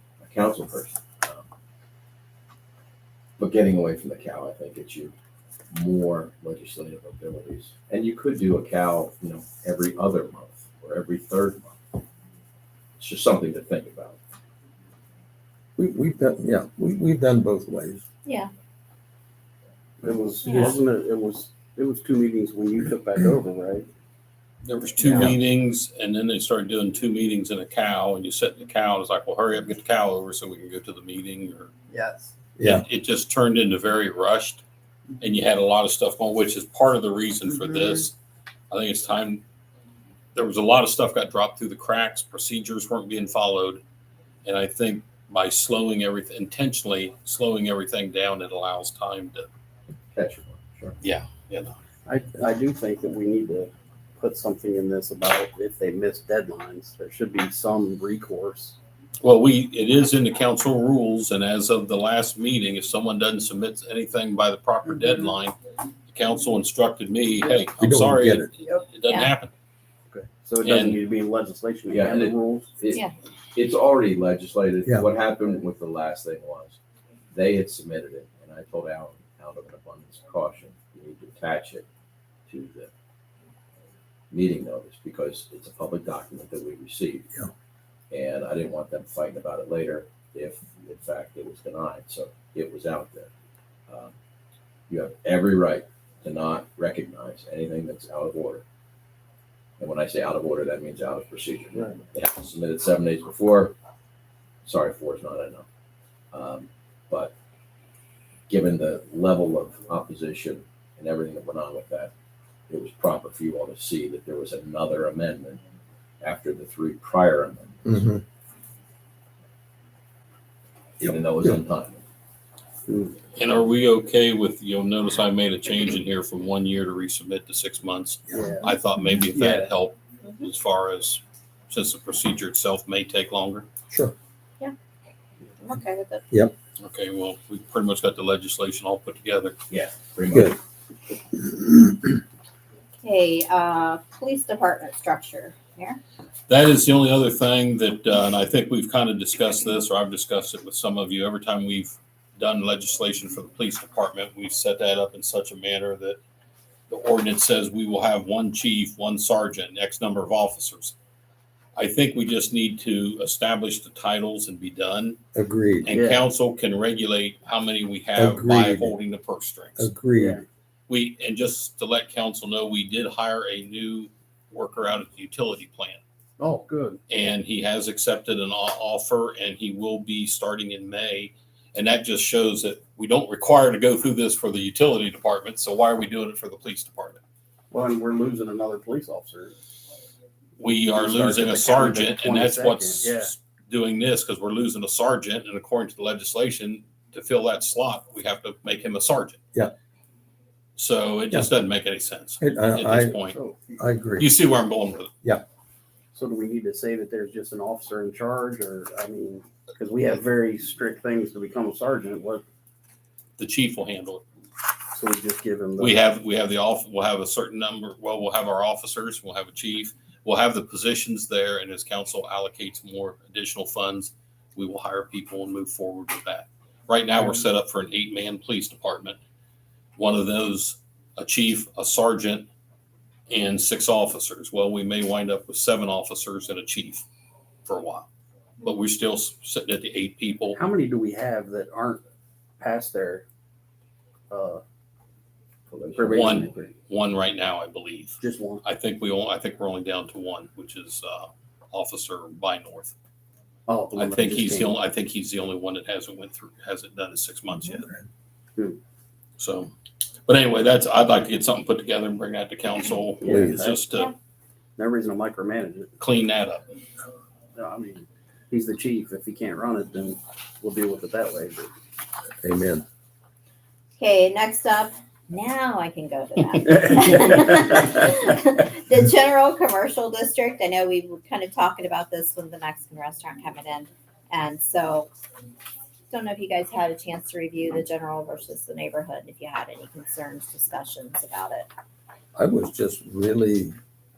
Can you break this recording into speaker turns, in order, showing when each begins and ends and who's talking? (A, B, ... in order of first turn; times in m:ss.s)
0:00.2-0:01.5 A
0:03.4-0:05.1 A
0:05.7-0:12.0 A
0:13.0-0:14.2 A
0:15.8-0:18.0 B
0:20.0-0:23.9 C
0:20.4-0:20.7 D
0:24.6-0:31.7 E
0:25.0-0:25.3 C
0:31.9-0:32.4 C
0:32.6-0:32.8 B
0:32.6-0:34.6 E
0:35.2-0:38.2 E
0:38.7-0:39.4 E
0:40.4-0:43.8 E
0:44.4-0:49.5 E
0:50.1-0:51.0 A
0:51.0-0:51.8 E
0:52.1-0:58.8 C
0:59.2-1:05.6 E
1:06.1-1:09.5 E
1:07.8-1:08.5 B
1:08.6-1:09.3 D
1:10.1-1:12.8 C
1:10.6-1:11.0 E
1:11.9-1:13.0 A
1:13.5-1:16.8 A
1:17.3-1:21.9 A
1:22.5-1:22.9 A
1:24.3-1:27.3 A
1:28.1-1:33.3 A
1:33.9-1:34.2 A
1:34.9-1:38.6 A
1:39.8-1:43.8 A
1:44.6-1:45.7 A
1:46.3-1:47.3 A
1:48.5-1:52.1 A
1:52.7-1:55.6 A
1:56.2-1:58.0 A
1:57.9-1:58.2 B
2:01.0-2:01.6 B
2:01.0-2:02.0 A
2:02.9-2:03.2 C
2:03.4-2:13.7 E
2:08.3-2:08.8 C
2:09.3-2:09.7 C
2:10.2-2:10.5 D
2:13.9-2:14.2 B
2:15.6-2:16.2 D
2:16.8-2:19.6 E
2:19.7-2:20.6 A
2:20.3-2:20.6 B
2:23.0-2:26.0 D
2:26.5-2:36.2 E
2:36.9-2:41.0 E
2:41.8-2:45.2 E
2:45.4-2:45.9 B
2:45.8-2:49.9 E
2:45.9-2:46.2 C
2:48.2-2:49.0 B
2:49.8-2:50.4 B
2:50.2-2:50.4 C
2:50.9-2:56.0 E
2:56.4-2:57.0 C
2:57.1-3:07.2 E
3:07.7-3:09.5 C
3:10.6-3:19.4 E
3:10.9-3:13.3 C
3:20.8-3:23.4 E
3:22.4-3:23.2 B
3:23.3-3:23.8 C
3:23.8-3:24.3 B
3:24.2-3:25.1 E
3:26.1-3:32.4 C
3:33.4-3:34.2 E
3:34.9-3:36.0 C
3:35.8-3:49.2 E
3:50.0-3:52.5 E
3:53.3-3:57.0 E
3:57.7-3:58.1 E
3:58.6-4:00.6 E
4:00.5-4:02.0 C
4:02.6-4:03.2 C
4:04.3-4:04.6 C
4:05.7-4:06.4 A
4:06.0-4:06.7 C
4:06.1-4:12.9 E
4:08.2-4:08.6 C
4:13.7-4:14.8 C
4:14.0-4:17.9 E
4:17.7-4:18.0 B
4:19.4-4:19.7 E
4:20.3-4:24.1 E
4:23.2-4:23.8 C
4:23.2-4:23.6 B
4:24.8-4:25.9 C
4:26.0-4:26.8 E
4:27.6-4:31.7 C
4:32.4-4:32.8 B
4:34.0-4:45.1 D
4:36.6-4:38.0 C
4:46.1-4:51.7 D
4:52.4-4:53.8 B